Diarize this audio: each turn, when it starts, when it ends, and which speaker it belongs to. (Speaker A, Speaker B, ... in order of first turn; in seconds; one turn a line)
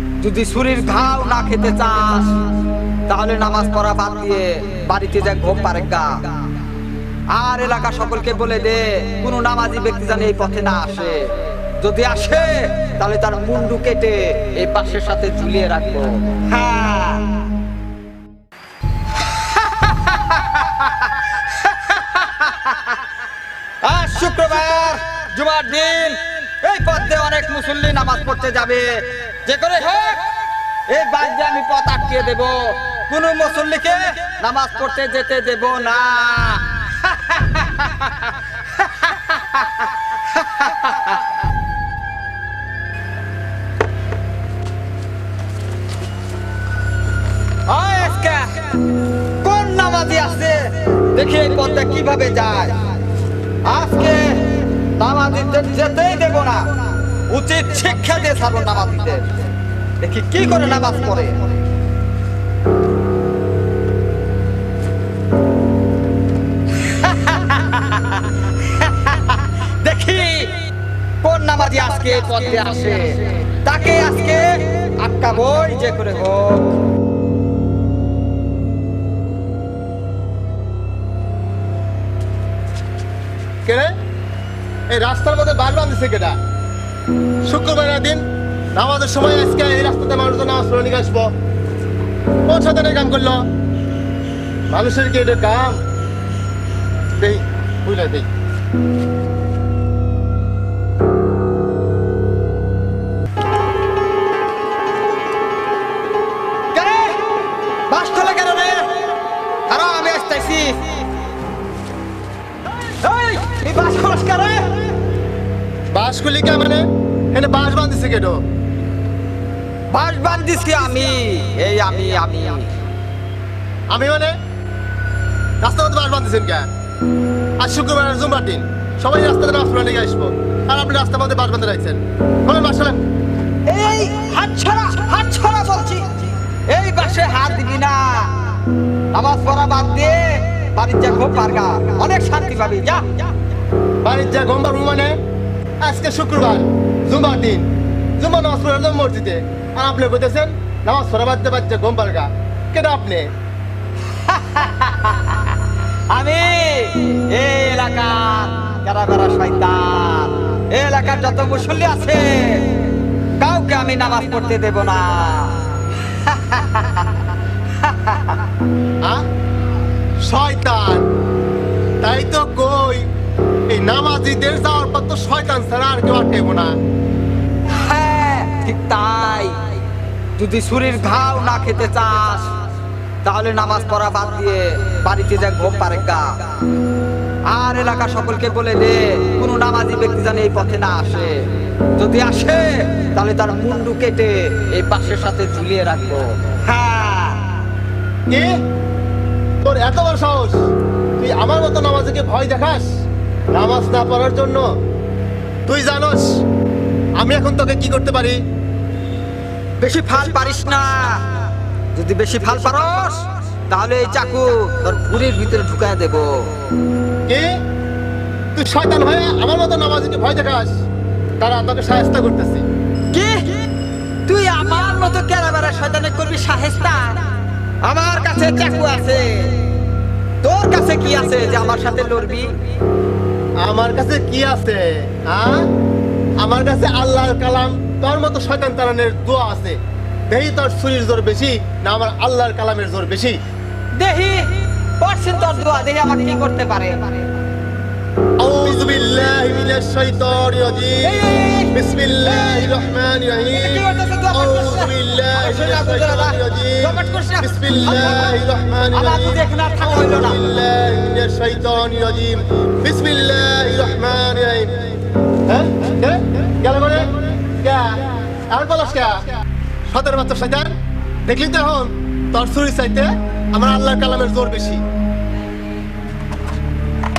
Speaker A: 0.2-2.5
Speaker A: 3.1-6.4
Speaker A: 7.3-17.4
Speaker A: 19.3-23.0
Speaker A: 23.8-41.2
Speaker A: 47.7-48.9
Speaker A: 49.4-52.8
Speaker A: 53.6-59.5
Speaker A: 60.0-61.5
Speaker A: 66.8-70.6
Speaker A: 71.2-76.8
Speaker B: 83.7-83.9
Speaker B: 84.9-86.4
Speaker B: 87.4-91.3
Speaker B: 92.5-93.5
Speaker B: 94.7-95.8
Speaker B: 97.2-98.3
Speaker A: 106.7-107.3
Speaker A: 107.9-109.1
Speaker A: 109.7-111.0
Speaker A: 112.7-114.9
Speaker B: 115.9-118.4
Speaker A: 119.9-122.8
Speaker B: 123.9-124.3
Speaker B: 125.6-126.7
Speaker B: 127.6-133.0
Speaker A: 133.7-138.6
Speaker A: 139.1-143.3
Speaker B: 144.0-145.1
Speaker B: 145.8-147.7
Speaker B: 148.2-153.3
Speaker A: 154.1-168.4
Speaker B: 170.2-171.1
Speaker B: 172.0-173.1
Speaker B: 173.7-176.8
Speaker A: 177.6-179.8
Speaker A: 180.4-182.7
Speaker A: 183.2-186.6
Speaker A: 187.5-197.5
Speaker B: 199.6-200.6
Speaker B: 201.2-202.9
Speaker B: 203.5-204.6
Speaker B: 205.7-206.4
Speaker B: 207.2-208.4
Speaker A: 209.8-211.4
Speaker A: 211.9-216.5
Speaker B: 218.5-220.7
Speaker B: 221.4-222.6
Speaker A: 223.1-223.7
Speaker A: 224.3-227.2
Speaker A: 227.8-229.6
Speaker A: 230.4-232.7
Speaker B: 233.6-235.7
Speaker B: 236.4-239.8
Speaker B: 240.3-243.4
Speaker A: 244.0-247.3
Speaker B: 248.4-264.8
Speaker A: 251.0-252.7
Speaker A: 253.5-258.4
Speaker A: 258.9-260.4
Speaker B: 265.5-269.3
Speaker B: 269.9-270.7
Speaker B: 271.2-274.8